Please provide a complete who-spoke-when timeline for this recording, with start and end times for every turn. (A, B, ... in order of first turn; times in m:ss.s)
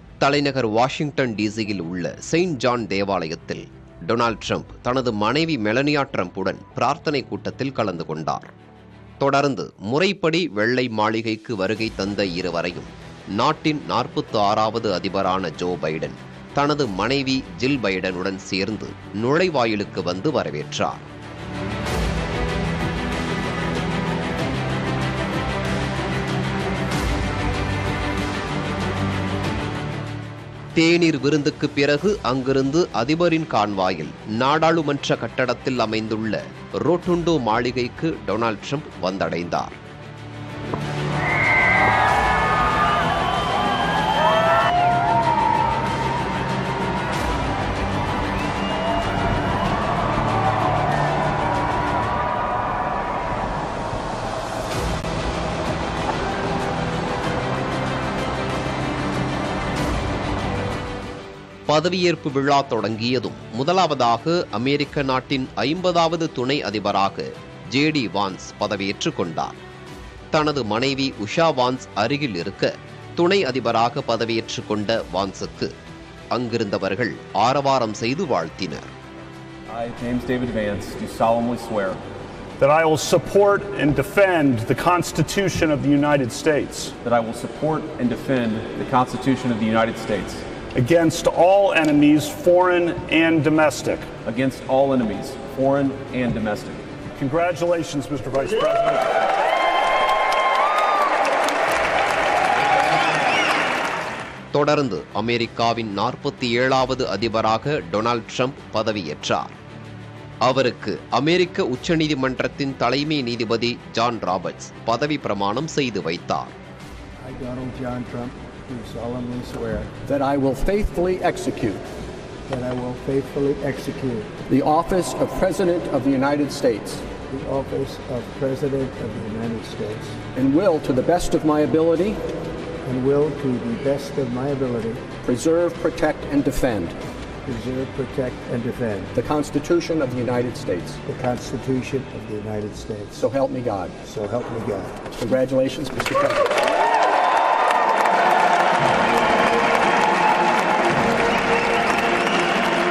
0:00.2-0:08.5 A
0:09.2-0:21.0 A
0:30.8-0:39.8 A
1:01.7-1:09.6 A
1:10.3-1:15.7 A
1:16.3-1:18.9 A
1:19.7-1:22.0 B
1:22.6-1:26.9 C
1:27.0-1:30.4 B
1:30.7-1:34.1 C
1:34.2-1:36.8 B
1:37.2-1:39.0 C
1:44.5-1:49.5 A
1:50.4-1:56.5 A
1:57.2-1:59.9 D
2:00.0-2:01.8 E
2:02.5-2:04.3 D
2:04.5-2:07.0 E
2:07.3-2:10.2 D
2:10.3-2:12.2 E
2:12.8-2:15.0 D
2:15.2-2:17.0 E
2:17.4-2:19.1 D
2:19.1-2:21.0 E
2:21.0-2:23.2 D
2:23.1-2:23.9 E
2:24.0-2:25.0 D
2:25.1-2:26.5 E